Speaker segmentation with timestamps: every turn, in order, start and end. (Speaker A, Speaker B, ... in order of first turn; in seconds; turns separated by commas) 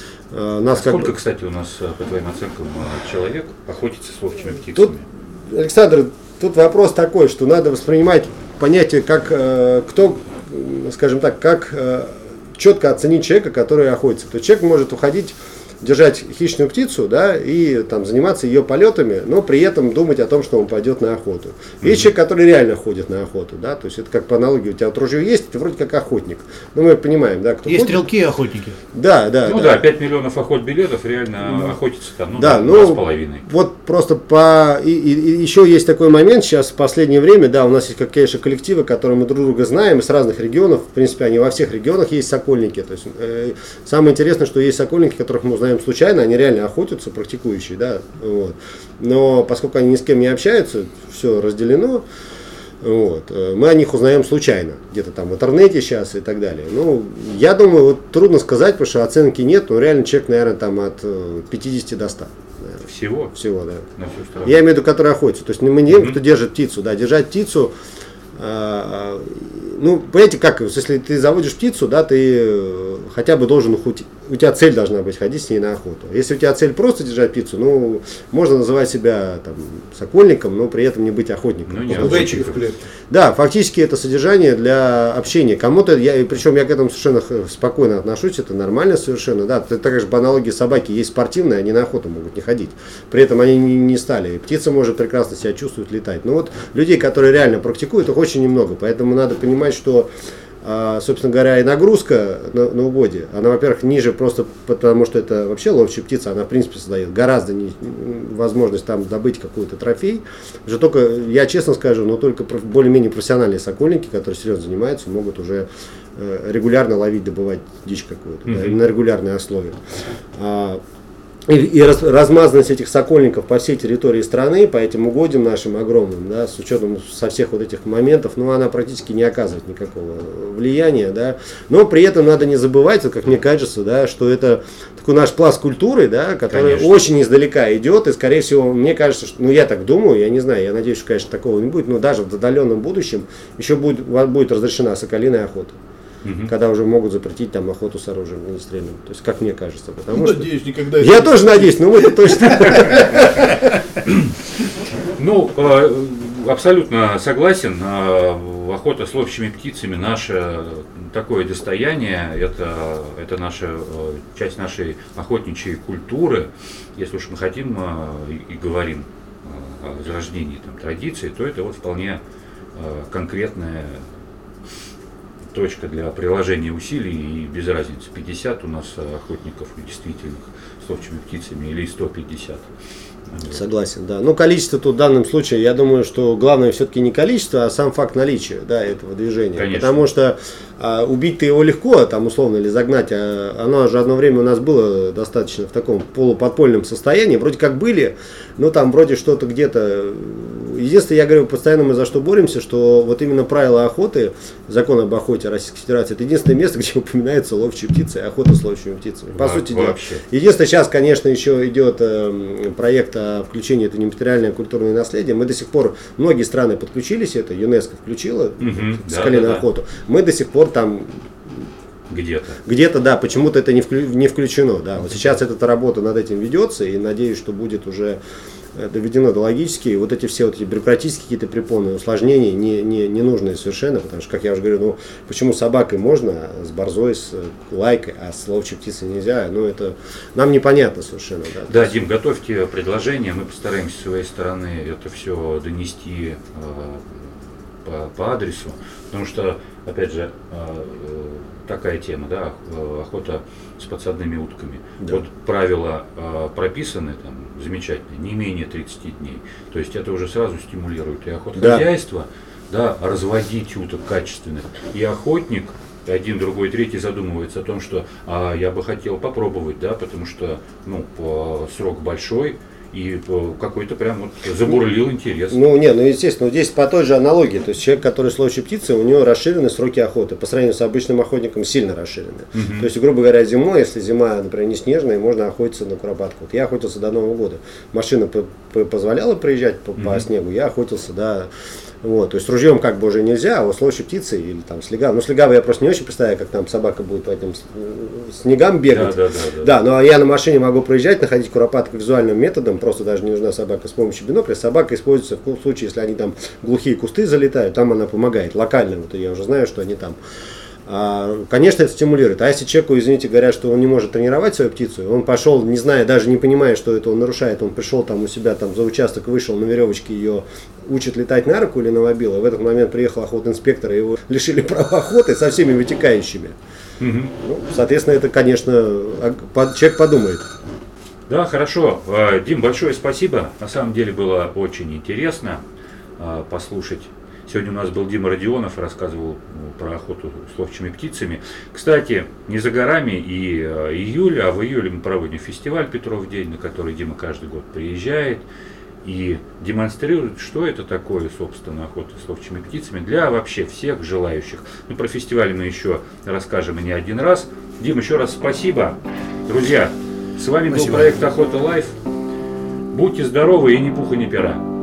Speaker A: 0.3-1.1, Speaker B: 0.7-5.1, Speaker A: 4.7-28.1, Speaker C: 27.7-28.8, Speaker A: 28.9-29.9, Speaker B: 29.4-33.5, Speaker A: 32.4-52.1, Speaker A: 52.8-63.9, Speaker B: 62.8-63.3, Speaker B: 64.0-64.6, Speaker A: 64.5-67.7, Speaker B: 65.9-66.2, Speaker A: 68.3-82.6, Speaker B: 81.7-82.6, Speaker C: 81.9-82.8, Speaker A: 83.1-100.1, Speaker A: 100.6-119.8, Speaker B: 118.5-118.8, Speaker A: 120.3-120.8, Speaker A: 121.5-145.8, Speaker B: 136.5-137.1, Speaker B: 146.2-146.5, Speaker A: 146.5-153.5, Speaker C: 150.1-153.8, Speaker B: 155.2-172.2, Speaker B: 172.8-174.1, Speaker B: 175.5-182.7, Speaker B: 183.3-183.6, Speaker A: 183.5-221.7, Speaker B: 189.6-190.1, Speaker B: 209.3-210.2, Speaker B: 218.6-219.7, Speaker B: 222.1-222.6, Speaker A: 222.7-228.2, Speaker A: 228.7-241.9, Speaker B: 241.7-275.6, Speaker A: 261.6-261.9, Speaker A: 275.5-291.5, Speaker B: 282.5-282.9, Speaker B: 290.0-290.2, Speaker A: 292.0-310.2, Speaker B: 298.9-299.7, Speaker A: 310.9-326.6, Speaker B: 327.0-327.3, Speaker A: 327.4-330.5, Speaker B: 331.3-335.6, Speaker B: 336.2-348.5, Speaker B: 349.0-362.0, Speaker A: 360.7-361.2, Speaker B: 362.9-364.6